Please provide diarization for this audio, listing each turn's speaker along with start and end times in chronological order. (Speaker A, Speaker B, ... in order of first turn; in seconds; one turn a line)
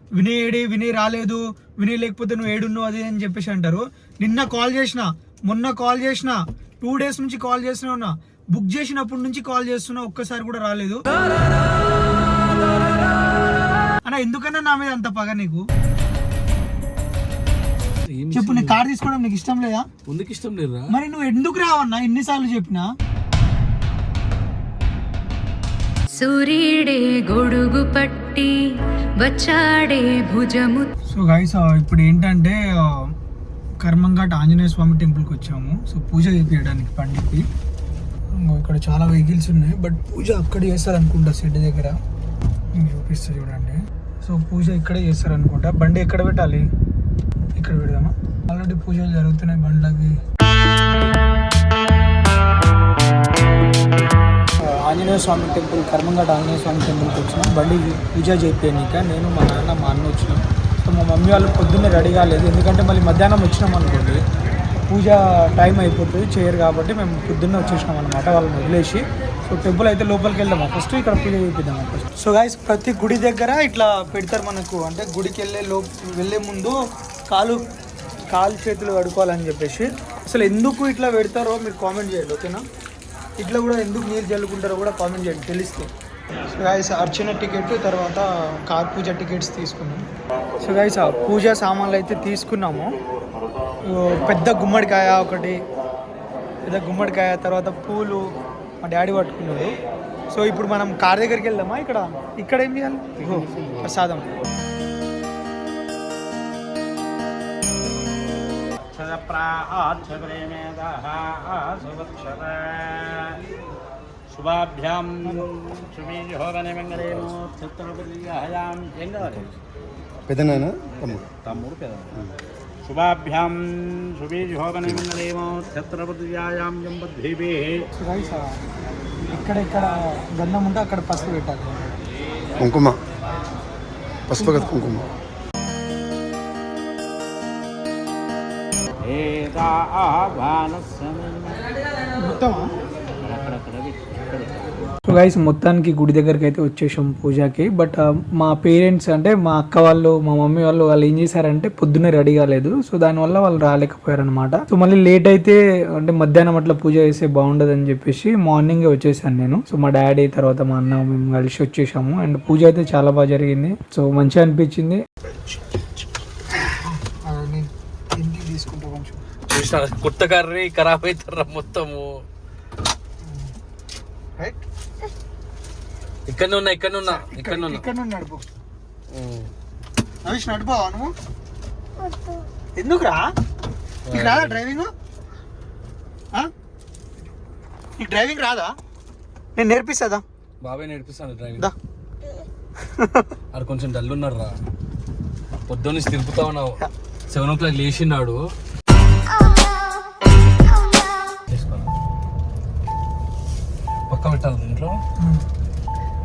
Speaker A: 0.2-11.1
Speaker A: 14.1-15.7
Speaker B: 18.1-18.8
Speaker A: 18.3-19.9
Speaker B: 20.1-20.9
Speaker A: 20.9-22.9
Speaker C: 26.1-28.6
Speaker C: 29.2-30.9
Speaker A: 31.1-33.1
Speaker A: 33.8-37.4
Speaker A: 38.4-42.0
Speaker A: 42.8-46.7
Speaker A: 47.6-50.2
Speaker A: 54.6-64.2
Speaker A: 64.9-77.6
Speaker A: 78.3-82.6
Speaker A: 83.4-85.9
Speaker A: 86.5-90.0
Speaker A: 90.6-93.0
Speaker A: 93.9-95.6
Speaker A: 96.7-98.3
Speaker A: 98.8-99.7
Speaker A: 100.3-104.3
Speaker D: 108.9-113.4
Speaker D: 114.3-119.3
Speaker E: 119.3-119.5
Speaker E: 120.3-121.5
Speaker D: 121.4-122.2
Speaker D: 122.8-127.9
Speaker A: 128.0-128.5
Speaker A: 129.3-131.8
Speaker E: 132.6-133.0
Speaker E: 134.3-135.1
Speaker A: 134.3-134.9
Speaker D: 139.1-141.7
Speaker A: 142.1-142.7
Speaker D: 143.2-144.6
Speaker A: 145.1-165.0
Speaker A: 166.7-169.2
Speaker B: 169.5-172.2
Speaker A: 174.4-174.7
Speaker B: 176.3-177.8
Speaker A: 177.1-178.5
Speaker B: 179.1-179.5
Speaker A: 180.3-181.1
Speaker A: 182.8-183.2
Speaker B: 184.1-184.6
Speaker A: 184.1-184.9
Speaker A: 188.0-188.7
Speaker A: 189.6-190.2
Speaker B: 190.6-191.7
Speaker A: 193.0-193.3
Speaker B: 193.5-194.6
Speaker B: 195.7-198.4
Speaker B: 201.5-201.9
Speaker B: 204.1-205.0